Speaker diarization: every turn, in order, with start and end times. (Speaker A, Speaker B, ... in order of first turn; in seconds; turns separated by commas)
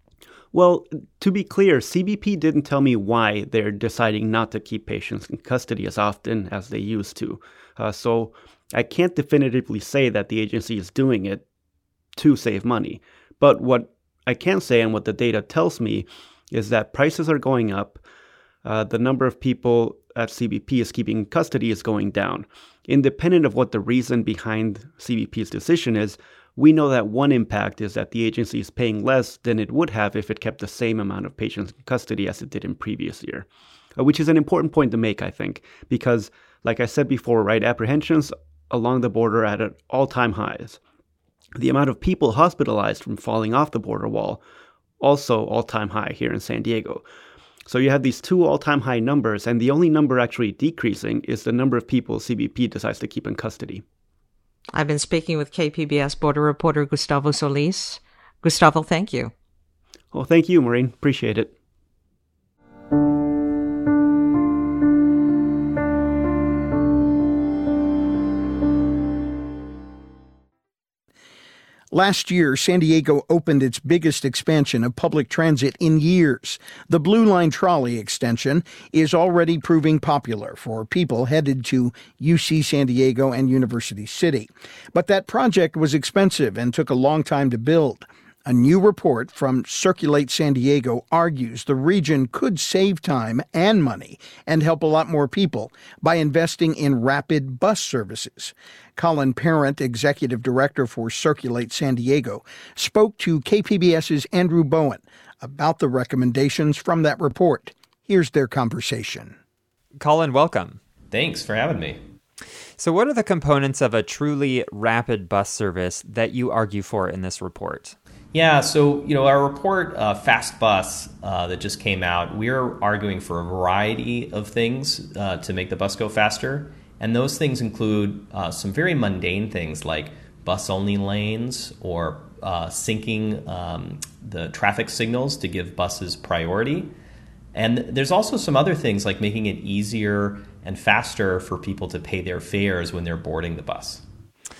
Speaker A: 0.5-11.4, Speaker A: 12.2-18.0, Speaker A: 18.6-40.8, Speaker A: 41.5-44.4, Speaker A: 45.0-47.0, Speaker A: 47.6-53.8, Speaker B: 54.7-59.3, Speaker A: 60.1-61.5, Speaker C: 71.9-109.3, Speaker D: 110.0-110.8, Speaker E: 111.1-112.0, Speaker D: 112.8-118.0, Speaker E: 118.3-136.9, Speaker E: 137.5-144.0